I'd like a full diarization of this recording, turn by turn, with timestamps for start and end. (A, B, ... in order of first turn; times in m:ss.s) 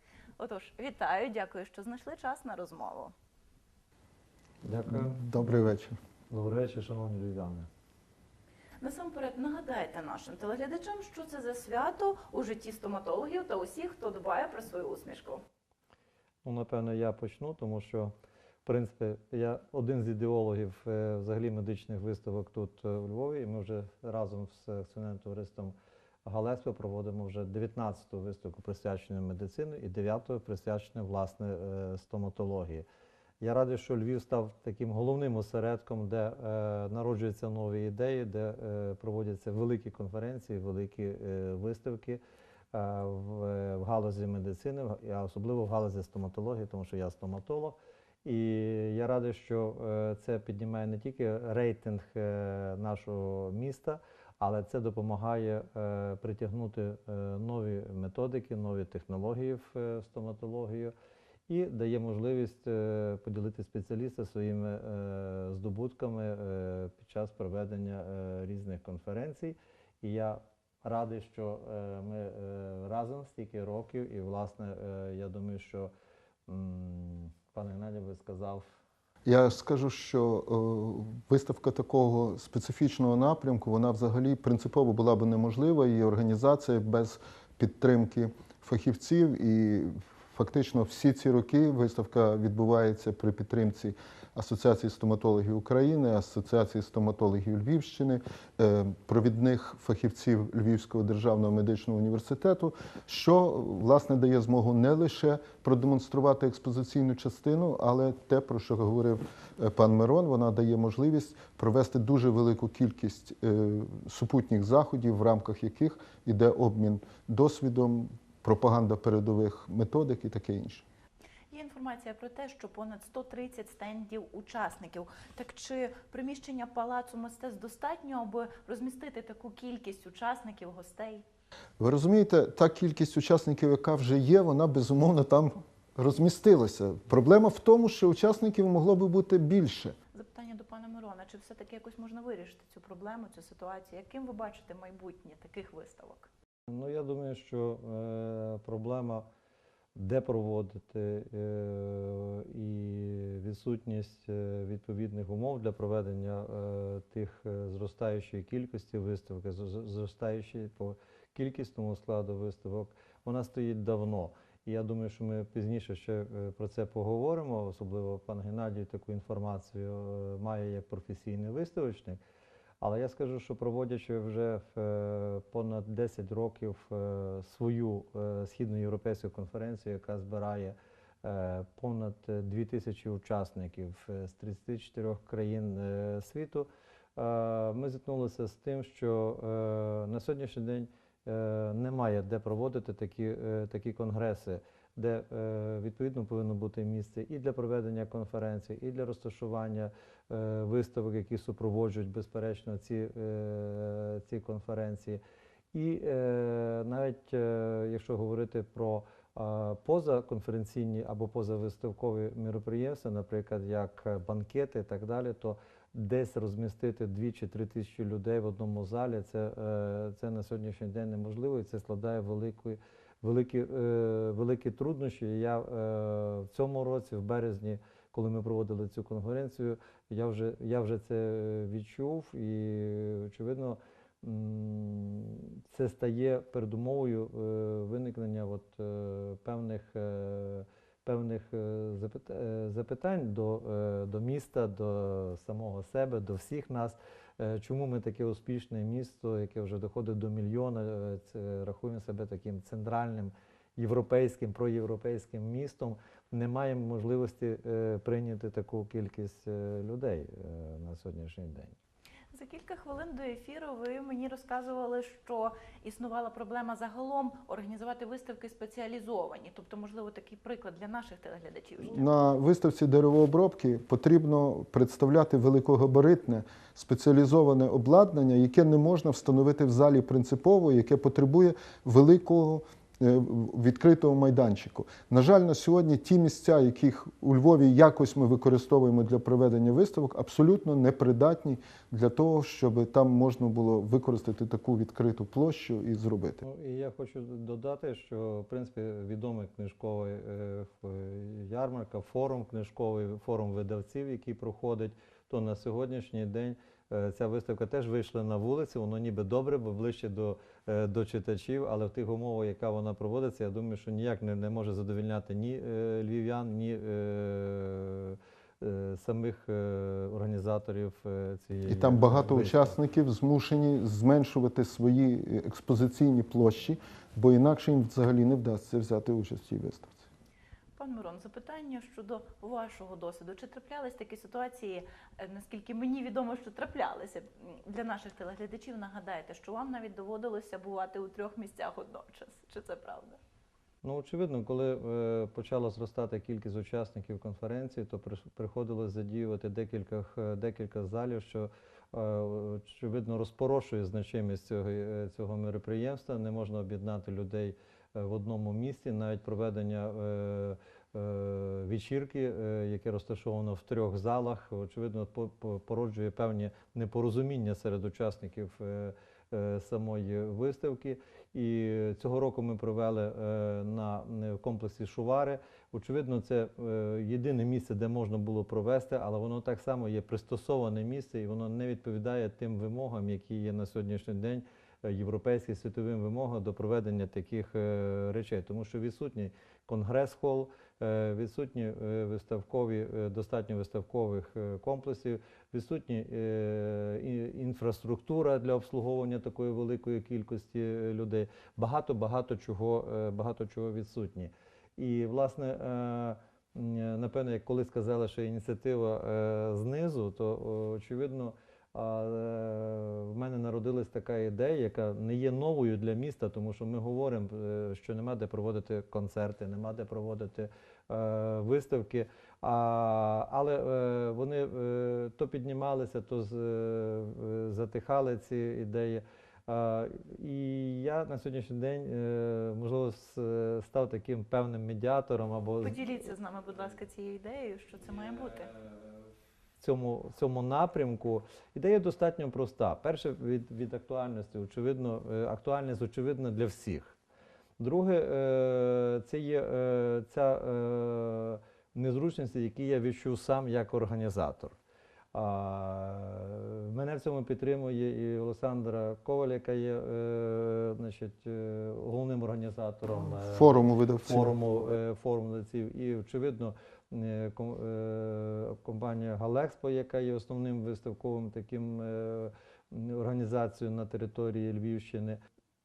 0:00.4-0:03.1 A
0:04.6-0:05.4 B
0:04.9-0:05.9 C
0:06.3-0:07.7 B
0:08.8-0:15.4 A
0:16.4-0:18.1 B
0:18.6-0:32.8 B
0:33.4-0:42.2 B
0:42.7-1:00.9 B
1:01.5-1:15.9 B
1:16.5-1:18.6 B
1:19.2-2:00.8 C
2:01.5-2:11.2 A
2:11.8-2:19.9 C
2:20.1-2:26.3 A
2:26.7-2:29.2 B
2:29.9-2:52.2 B
2:52.8-3:25.2 B
3:25.7-4:21.8 B
4:22.3-4:32.1 A
4:31.8-4:56.4 C
4:56.4-5:22.8 B
5:21.7-5:30.0 C
5:30.8-5:43.2 A
5:43.8-7:16.0 B
7:15.6-7:18.5 A
7:19.6-7:27.0 B
7:27.6-7:34.5 B
7:35.1-7:55.2 B
7:43.0-7:44.3 C